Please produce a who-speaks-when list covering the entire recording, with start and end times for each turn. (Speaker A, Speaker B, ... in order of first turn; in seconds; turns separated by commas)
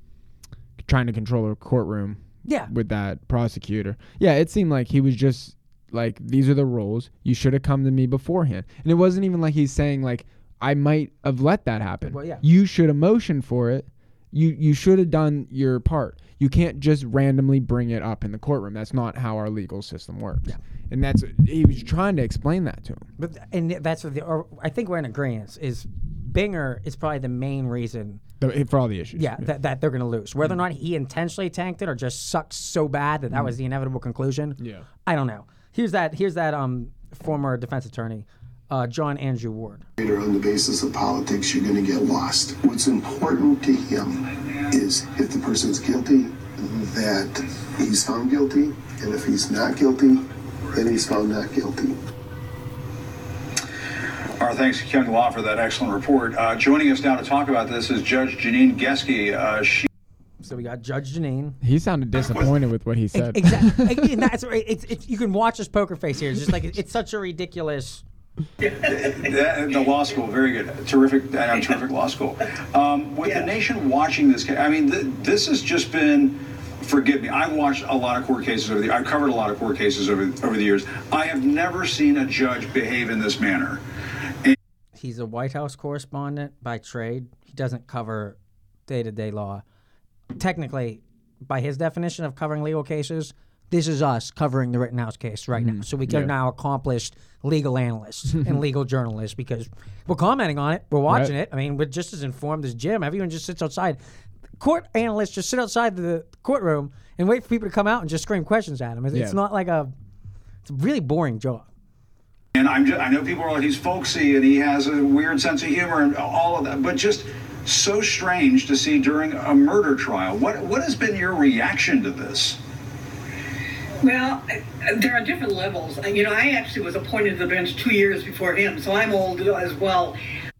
Speaker A: 0.8-23.1, Speaker B: 2.4-2.7, Speaker B: 12.0-12.4, Speaker B: 23.2-28.2, Speaker A: 28.4-29.5, Speaker B: 29.1-39.8, Speaker A: 34.6-34.9, Speaker C: 40.0-52.0, Speaker D: 54.4-59.9, Speaker B: 60.4-61.6, Speaker A: 61.6-64.3, Speaker B: 63.1-68.0, Speaker E: 68.6-69.3, Speaker D: 68.8-83.8, Speaker E: 73.2-73.5, Speaker B: 85.0-89.6, Speaker B: 90.3-104.0, Speaker A: 95.5-96.3, Speaker A: 101.1-101.3, Speaker B: 104.6-109.9, Speaker A: 109.1-109.4, Speaker B: 110.6-111.7, Speaker D: 112.5-122.6, Speaker E: 124.0-130.2